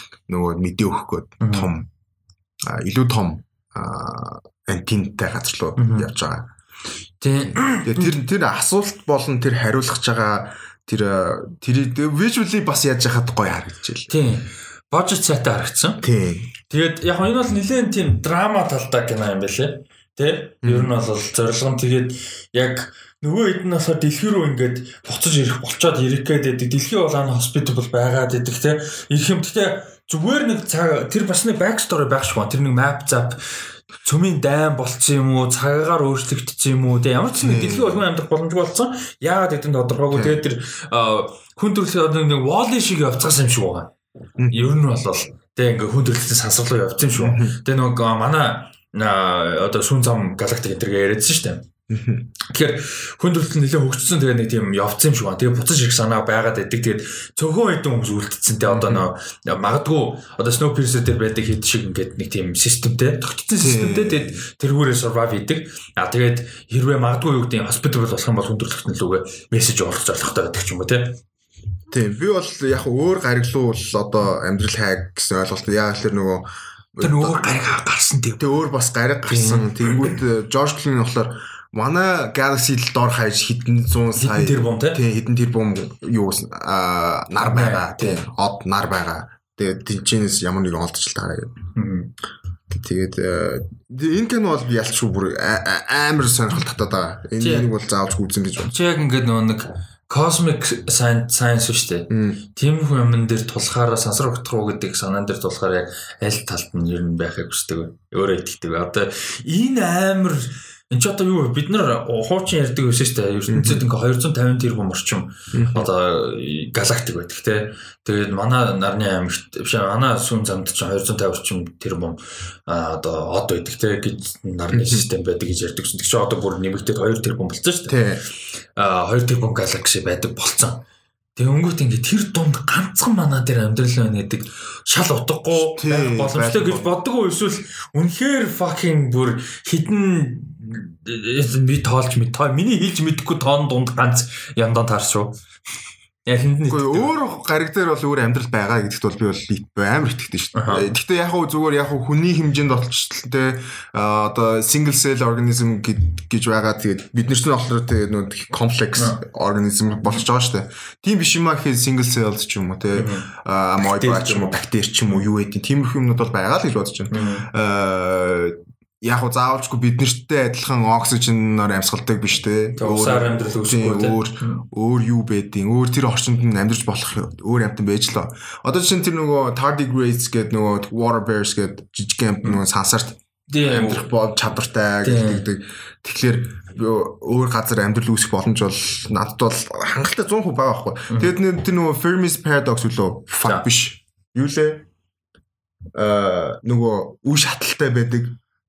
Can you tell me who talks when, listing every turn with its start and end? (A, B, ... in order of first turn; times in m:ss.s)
0:00.3-0:01.9 A
0:01.4-0:01.7 B
0:02.6-0:06.5 A
0:05.8-0:06.1 B
0:07.2-0:08.2 B
0:07.4-0:14.1 A
0:14.1-0:16.0 B
0:16.0-0:16.5 A
0:16.7-0:43.9 B
0:20.6-0:20.9 A
0:37.4-0:38.0 A
0:40.1-0:40.4 A
0:44.4-0:44.7 A
0:44.5-0:51.7 B
0:47.2-0:47.6 A
0:51.9-0:52.3 A
0:52.4-1:11.2 B
0:58.7-0:59.1 A
1:03.6-1:04.4 A
1:11.9-1:17.6 A
1:17.0-1:18.6 B
1:18.4-1:31.6 A
1:19.3-1:20.2 B
1:24.2-1:25.0 B
1:27.4-1:28.2 B
1:31.8-1:32.1 B
1:32.7-1:38.7 A
1:37.4-1:37.7 B
1:38.6-2:08.0 B
1:42.1-1:42.4 A
1:53.5-1:53.8 A
1:55.5-1:55.9 A
2:04.7-2:05.0 A
2:07.9-2:08.2 A
2:08.7-2:10.8 B
2:11.4-2:25.4 B
2:15.7-2:16.9 A
2:26.2-2:27.1 B
2:26.7-3:14.8 A
2:30.5-2:30.8 B
2:42.9-2:43.3 B
2:43.8-2:44.6 B
2:47.1-2:47.5 B
2:52.8-2:54.6 B
3:03.5-3:04.1 B
3:05.0-3:05.4 B
3:11.1-3:11.3 B
3:15.9-3:18.4 A